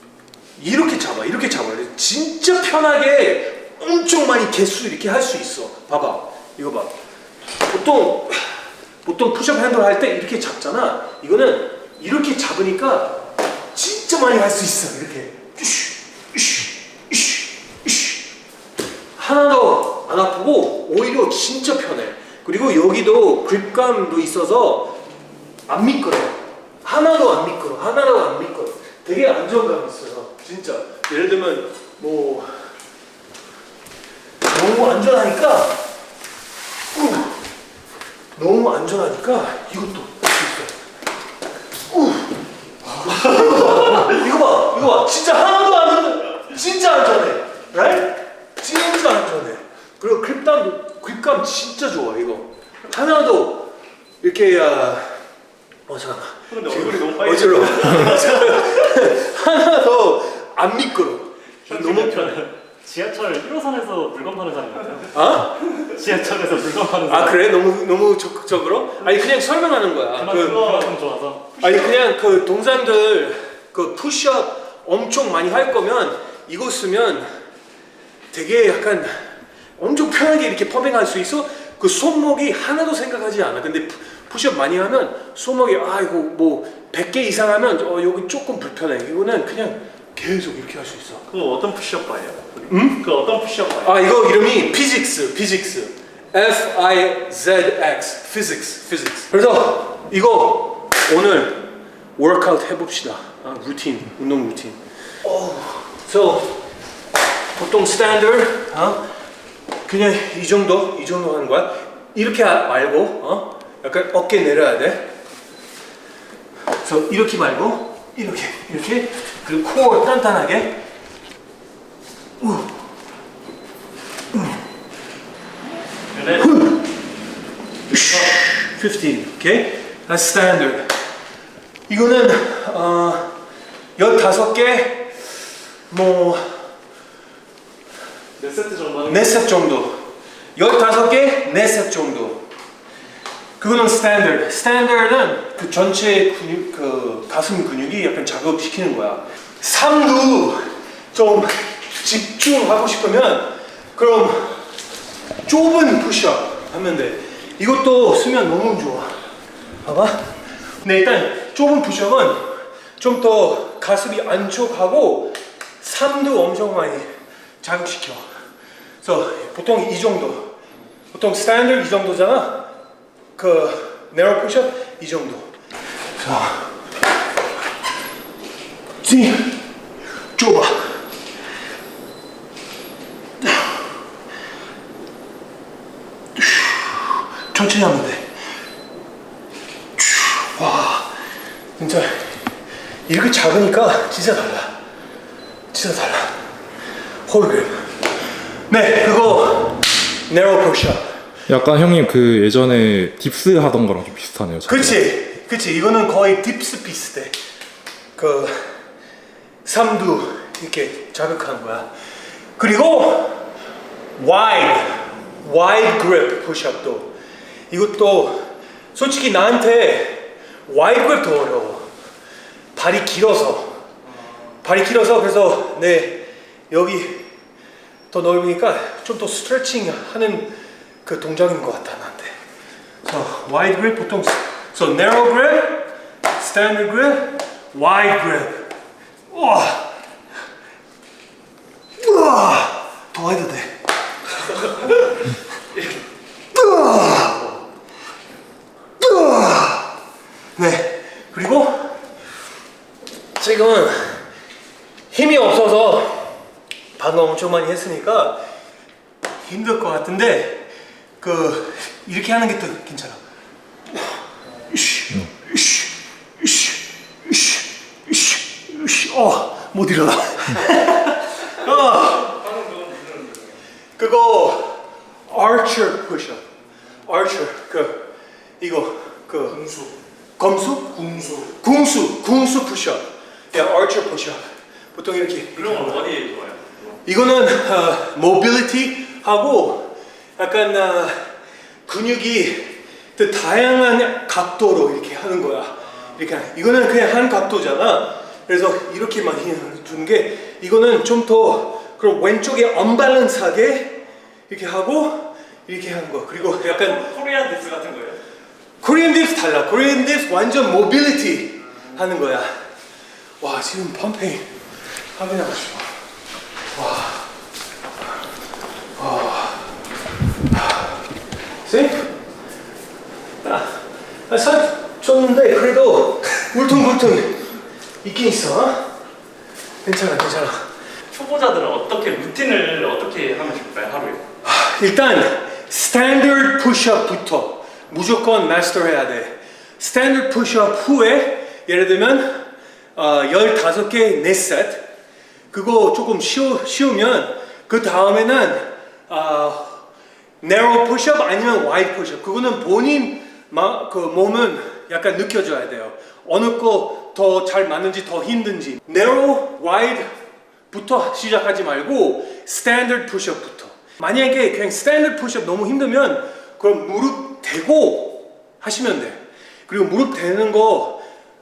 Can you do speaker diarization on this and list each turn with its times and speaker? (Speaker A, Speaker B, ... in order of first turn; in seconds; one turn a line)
Speaker A: 0.6-6.9
Speaker A: 7.7-13.2
Speaker A: 13.7-18.2
Speaker A: 19.2-25.0
Speaker A: 25.7-32.5
Speaker A: 34.5-35.8
Speaker A: 36.9-37.4
Speaker A: 38.4-40.7
Speaker A: 41.9-42.4
Speaker A: 43.0-55.1
Speaker A: 55.9-62.4
Speaker B: 56.5-59.0
Speaker B: 61.7-67.4
Speaker A: 65.1-65.6
Speaker A: 67.1-70.9
Speaker B: 70.1-72.0
Speaker A: 71.6-77.3
Speaker A: 78.3-79.2
Speaker A: 79.8-91.2
Speaker B: 91.3-94.0
Speaker A: 92.7-93.1
Speaker A: 93.8-106.6
Speaker A: 107.6-109.0
Speaker A: 109.9-115.1
Speaker A: 116.8-120.8
Speaker A: 122.4-122.8
Speaker B: 126.1-126.5
Speaker A: 126.4-126.9
Speaker B: 127.9-128.3
Speaker A: 127.9-130.9
Speaker A: 131.9-133.4
Speaker A: 134.0-135.3
Speaker A: 135.9-136.5
Speaker B: 138.4-139.5
Speaker A: 139.1-140.0
Speaker A: 140.6-142.4
Speaker A: 143.6-154.6
Speaker A: 155.5-159.1
Speaker A: 159.8-160.3
Speaker A: 160.8-167.1
Speaker A: 167.6-168.2
Speaker A: 169.0-170.5
Speaker A: 171.1-172.7
Speaker A: 173.4-175.5
Speaker A: 176.2-176.7
Speaker A: 179.0-179.6
Speaker A: 180.4-180.9
Speaker A: 183.4-183.7
Speaker A: 186.4-188.2
Speaker A: 190.0-191.1
Speaker A: 191.8-192.3
Speaker A: 193.1-194.8
Speaker A: 195.7-196.4
Speaker A: 197.3-197.8
Speaker A: 198.7-201.0
Speaker C: 201.5-205.0
Speaker A: 204.7-207.4
Speaker A: 208.2-208.6
Speaker A: 209.7-211.9
Speaker A: 212.6-213.4
Speaker A: 214.2-217.1
Speaker A: 217.7-221.9
Speaker A: 222.8-223.8
Speaker A: 224.6-227.2
Speaker A: 228.1-232.3
Speaker A: 233.0-238.7
Speaker A: 239.3-239.9
Speaker A: 242.0-243.7
Speaker A: 246.5-247.6
Speaker A: 249.0-249.9
Speaker A: 250.6-251.9
Speaker A: 253.4-254.2
Speaker A: 255.1-256.4
Speaker A: 257.0-258.4
Speaker A: 259.5-260.7
Speaker A: 261.2-263.2
Speaker A: 264.7-272.4
Speaker B: 272.3-273.4
Speaker A: 274.0-276.4
Speaker A: 277.1-278.1
Speaker A: 278.6-279.7
Speaker A: 280.4-284.4
Speaker A: 284.9-286.1
Speaker B: 285.6-286.8
Speaker A: 287.1-291.2
Speaker A: 291.9-307.1
Speaker B: 306.4-308.2
Speaker A: 308.8-312.5
Speaker A: 313.4-314.4
Speaker A: 315.2-315.9
Speaker A: 316.7-317.2
Speaker A: 319.0-319.7
Speaker A: 320.5-320.9
Speaker A: 321.7-322.1
Speaker A: 323.4-327.5
Speaker A: 328.0-328.9
Speaker A: 329.8-330.7
Speaker B: 331.1-334.2
Speaker A: 334.4-342.3
Speaker A: 343.0-344.9
Speaker A: 345.5-349.9
Speaker A: 350.4-360.1
Speaker A: 360.7-371.0